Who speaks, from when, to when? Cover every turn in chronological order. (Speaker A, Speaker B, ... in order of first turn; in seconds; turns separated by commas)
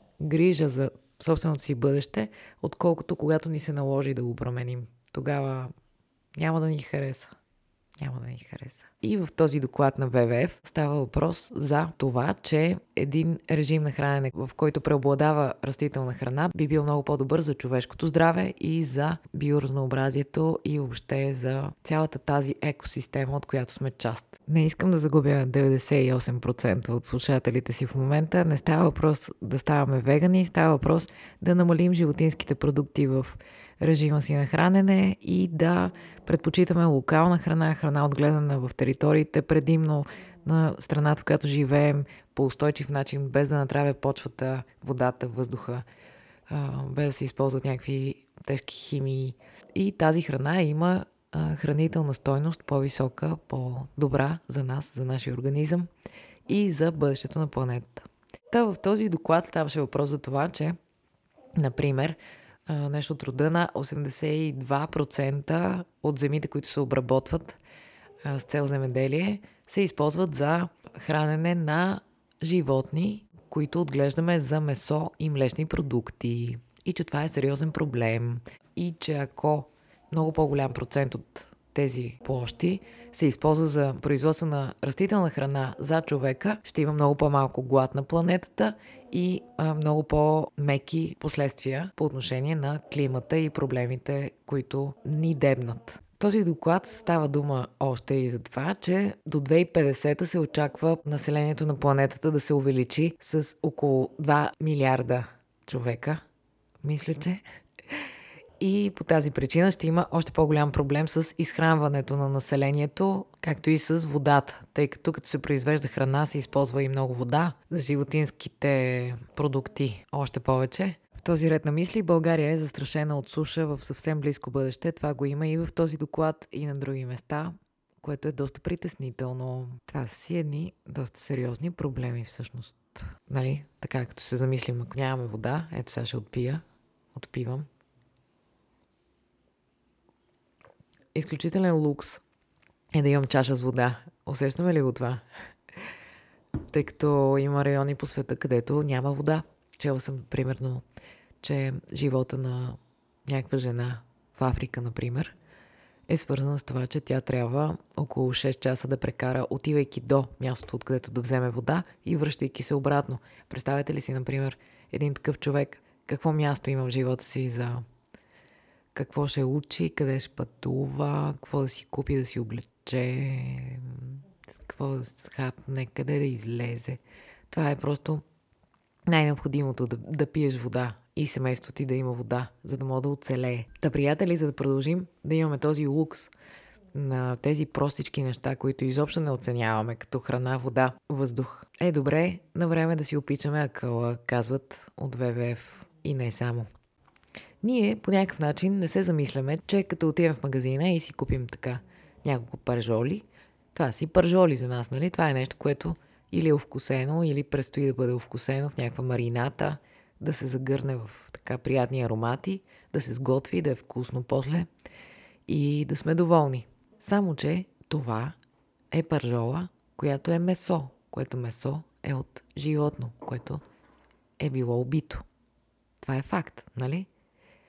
Speaker A: 0.2-5.7, Speaker A: 6.3-7.3, Speaker A: 8.0-45.8, Speaker A: 46.5-55.9, Speaker A: 56.5-60.7, Speaker A: 61.5-67.6, Speaker A: 68.2-106.2, Speaker A: 106.8-107.4, Speaker A: 108.6-137.7, Speaker A: 141.1-142.2, Speaker A: 142.9-145.2, Speaker A: 146.7-150.8, Speaker A: 151.4-155.3, Speaker A: 156.1-167.8, Speaker A: 168.9-178.2, Speaker A: 179.1-186.3, Speaker A: 186.9-196.7, Speaker A: 197.6-214.7, Speaker A: 215.5-218.3, Speaker A: 218.9-223.6, Speaker A: 224.4-225.2, Speaker A: 226.0-227.1